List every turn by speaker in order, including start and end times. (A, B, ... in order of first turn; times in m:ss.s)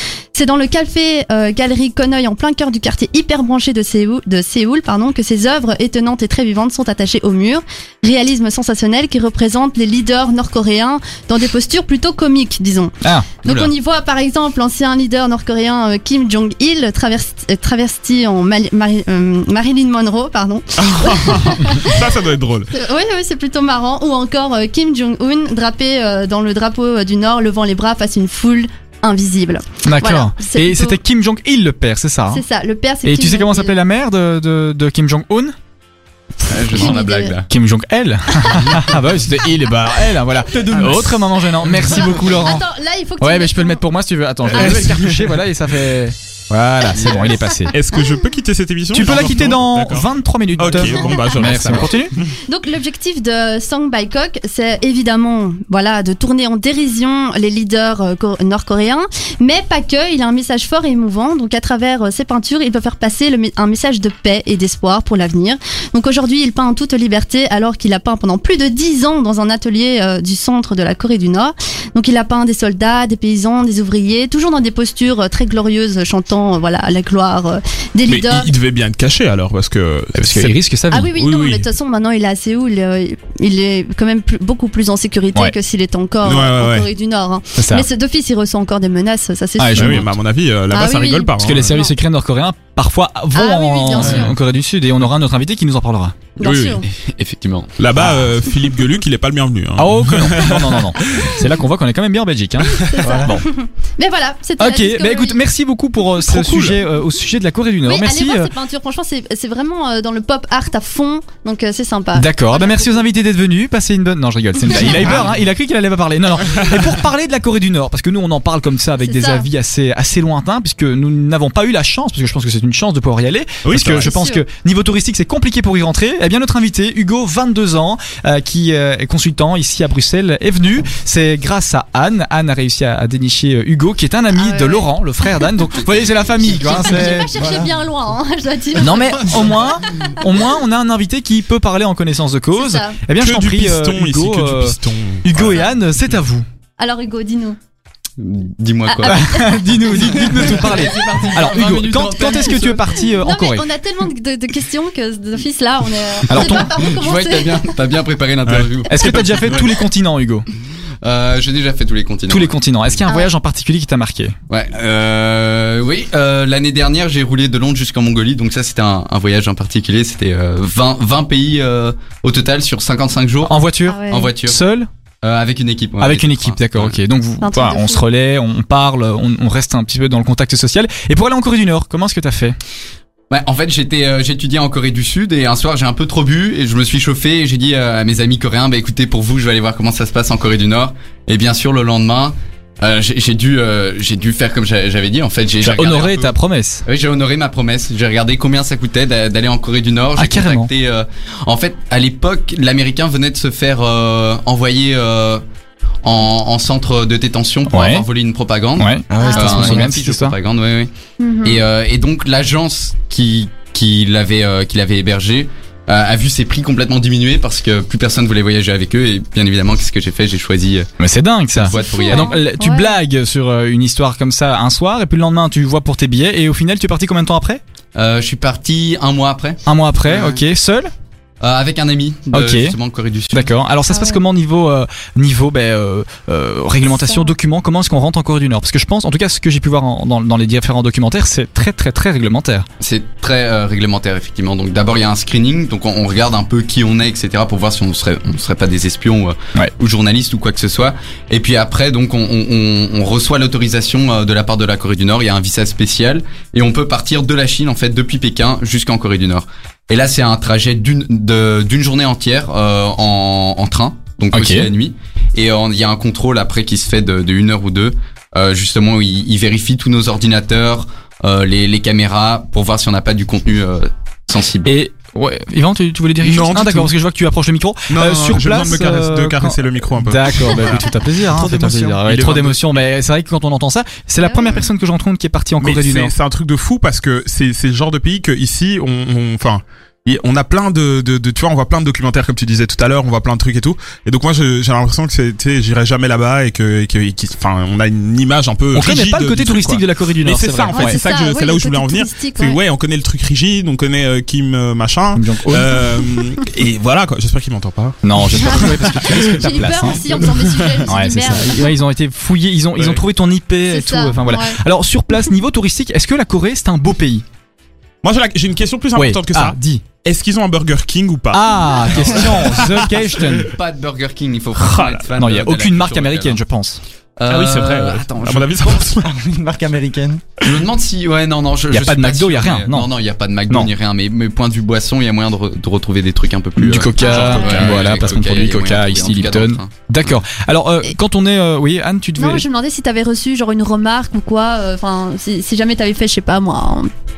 0:00.3-0:22.0 A
0:13.0-0:13.3 B
0:13.4-0:13.7 C
0:20.8-0:22.7 D
0:22.7-0:31.0 A
0:29.8-0:32.4 B
0:32.3-0:33.8 A
0:33.0-0:35.6 B
0:36.5-0:37.5 C
0:36.7-0:37.4 A
0:37.5-0:42.6 B
0:40.4-0:41.3 E
0:41.9-0:43.8 A
0:43.2-0:47.8 B
0:44.5-0:45.3 D
0:44.5-0:44.9 A
0:47.0-0:47.3 C
0:47.7-0:50.1 D
0:48.9-0:52.1 B
0:50.6-0:52.3 D
0:51.0-0:51.6 A
0:52.5-1:18.5 A
1:18.1-1:20.6 D
1:20.2-1:21.1 B
1:20.9-1:30.1 A
1:21.2-1:21.7 D
1:26.2-1:26.9 D
1:27.6-1:27.9 B
1:29.6-1:30.0 B
1:29.7-1:31.7 D
1:30.7-1:31.9 A
1:31.4-1:36.2 B
1:33.3-1:34.3 A
1:34.0-1:34.3 D
1:36.4-1:36.9 A
1:36.4-1:36.8 D
1:36.9-1:37.8 C
1:37.8-1:41.4 D
1:38.0-1:38.3 B
1:39.8-1:43.5 B
1:42.7-1:45.4 A
1:43.0-1:43.4 E
1:44.6-1:48.5 B
1:46.3-1:46.7 D
1:47.9-1:53.0 A
1:52.2-2:17.3 B
1:54.7-1:55.3 D
1:56.5-1:56.9 D
1:59.0-1:59.5 A
2:03.6-2:04.1 D
2:04.0-2:04.4 A
2:14.4-2:15.5 A
2:16.4-2:20.1 A
2:16.7-2:17.8 E
2:18.8-2:26.4 B
2:22.5-2:23.0 A
2:23.2-2:25.7 D
2:26.8-2:27.6 A
2:28.2-2:32.8 C
2:28.9-2:29.7 A
2:29.0-2:33.7 B
2:33.2-2:37.7 A
2:36.3-2:36.8 B
2:36.3-2:39.4 C
2:38.5-2:39.7 D
2:38.9-2:40.5 B
2:41.0-2:42.6 C
2:42.3-2:44.4 B
2:43.1-2:43.3 A
2:44.5-2:54.6 C
2:53.4-2:54.9 B
2:53.9-2:54.3 A
2:55.2-2:57.0 C
2:56.0-3:02.6 B
2:57.4-2:58.0 A
3:03.3-3:16.3 C
3:15.6-3:16.8 B
3:16.8-3:25.4 C
3:20.2-3:20.7 B
3:26.0-3:30.9 C
3:27.7-3:28.1 B
3:28.8-3:30.4 B
3:29.1-3:29.8 E
3:29.2-3:29.8 A
3:31.2-3:31.6 A
3:31.4-3:40.9 C
3:41.0-3:47.6 B
3:41.6-3:42.4 C
3:41.7-3:43.0 A
3:48.0-3:49.6 C
3:49.7-3:50.9 B
3:51.4-3:53.5 C
3:52.3-3:52.8 B
3:53.3-4:02.7 B
3:53.9-3:54.2 A
3:56.9-3:57.3 A
4:02.8-4:34.7 C
4:24.3-4:24.7 B
4:34.6-4:46.1 B
4:36.2-4:36.9 D
4:37.9-4:40.9 D
4:41.3-4:42.5 E
4:42.3-4:42.6 D
4:44.2-4:44.6 A
4:45.6-5:09.5 D
4:58.7-5:01.0 B
5:00.7-5:02.6 A
5:05.2-5:05.8 B
5:08.0-5:10.3 B
5:08.4-5:11.7 A
5:10.1-5:10.9 D
5:10.8-5:17.2 B
5:12.8-5:13.0 D
5:13.7-5:14.6 A
5:18.0-5:23.2 D
5:19.0-5:19.8 B
5:21.3-5:23.5 B
5:23.4-5:26.4 C
5:24.6-5:25.1 D
5:25.2-5:26.8 B
5:27.2-5:28.8 C
5:27.3-5:29.1 D
5:29.0-5:30.2 E
5:30.4-5:39.7 C
5:31.7-5:32.9 B
5:36.6-5:42.4 B
5:37.0-5:37.7 A
5:42.2-5:46.9 A